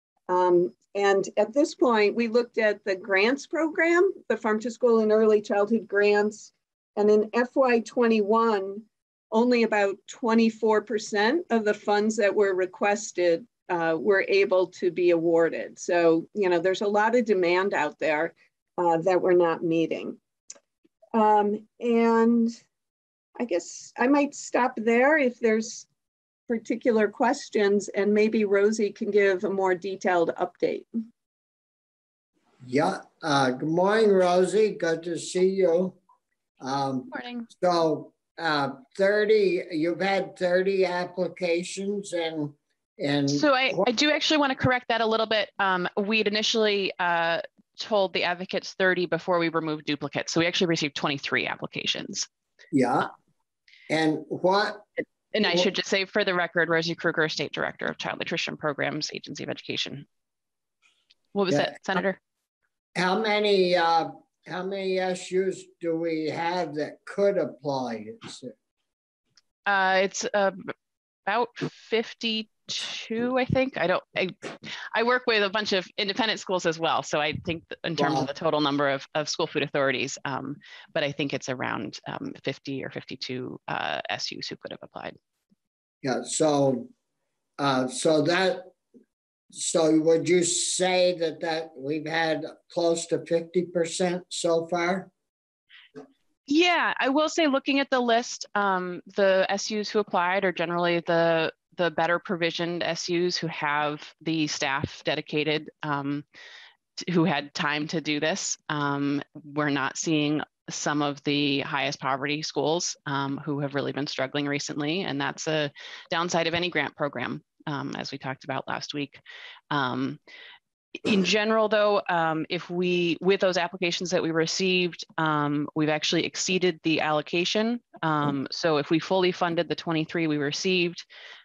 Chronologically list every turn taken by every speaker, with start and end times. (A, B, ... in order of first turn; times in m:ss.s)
0:00.3-0:20.2 A
0:21.1-0:22.6 A
0:23.4-0:25.9 A
0:26.5-0:30.9 A
0:32.6-0:36.0 B
0:36.6-0:43.9 B
0:37.1-0:37.5 C
0:43.3-0:52.3 C
0:52.7-0:53.1 B
0:53.9-0:54.9 B
0:55.3-1:00.1 C
1:01.3-1:02.2 C
1:01.5-1:02.0 B
1:03.0-1:08.5 B
1:09.7-1:10.7 C
1:11.3-1:25.2 C
1:18.0-1:18.3 B
1:26.0-1:26.9 B
1:27.6-1:28.7 B
1:29.5-1:35.1 B
1:36.5-1:46.2 C
1:47.0-1:59.2 C
1:59.7-2:00.2 C
2:01.0-2:11.0 C